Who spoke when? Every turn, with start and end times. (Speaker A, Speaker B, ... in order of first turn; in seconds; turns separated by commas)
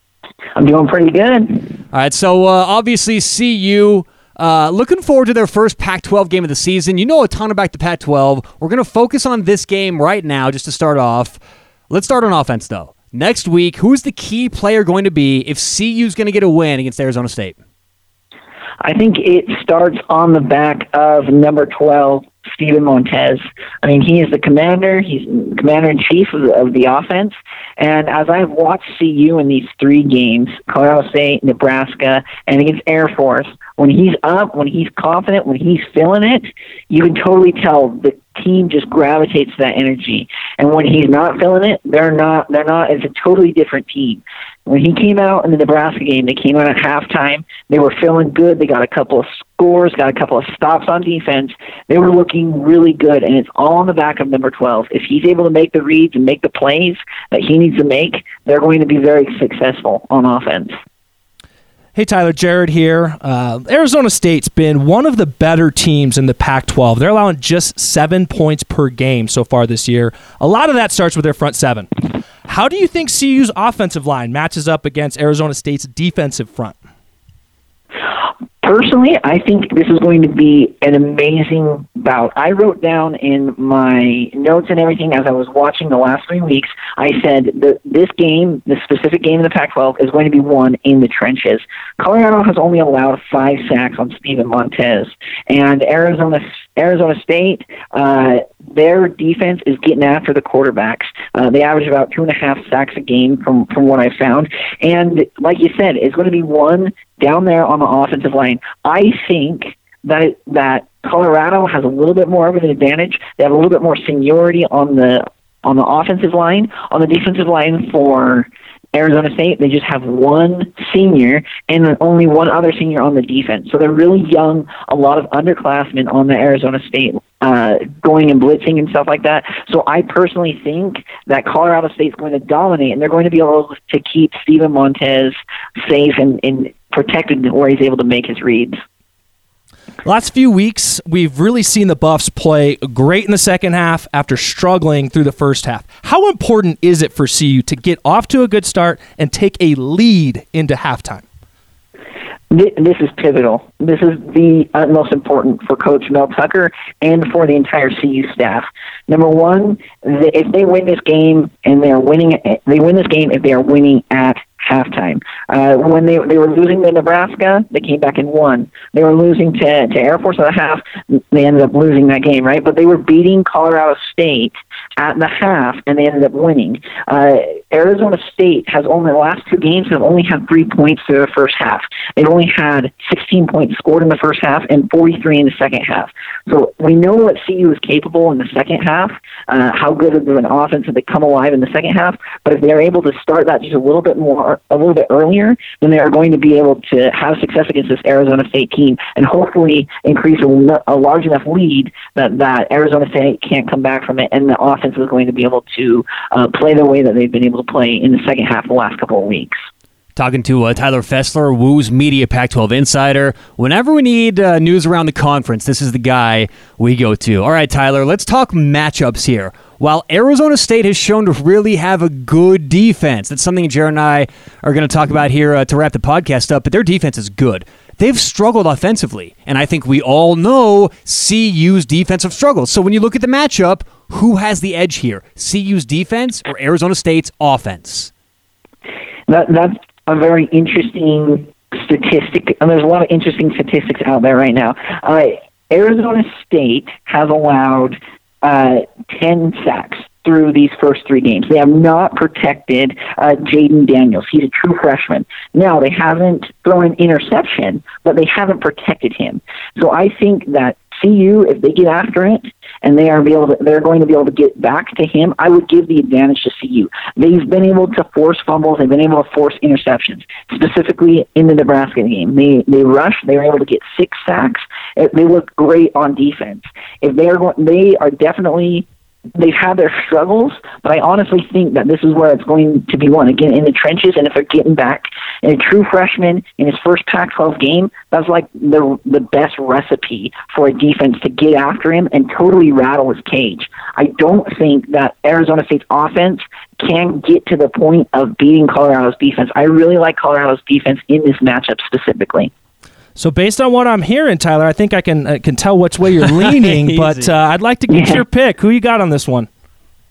Speaker A: 0.6-1.7, Speaker B: 1.9-17.6, Speaker A: 18.8-60.7, Speaker C: 61.9-71.9, Speaker C: 72.4-76.8, Speaker A: 78.6-138.8, Speaker C: 140.0-151.2, Speaker A: 152.5-209.6, Speaker B: 210.2-238.1, Speaker A: 239.3-302.5, Speaker C: 303.2-309.5, Speaker B: 306.2-307.3, Speaker A: 307.9-308.2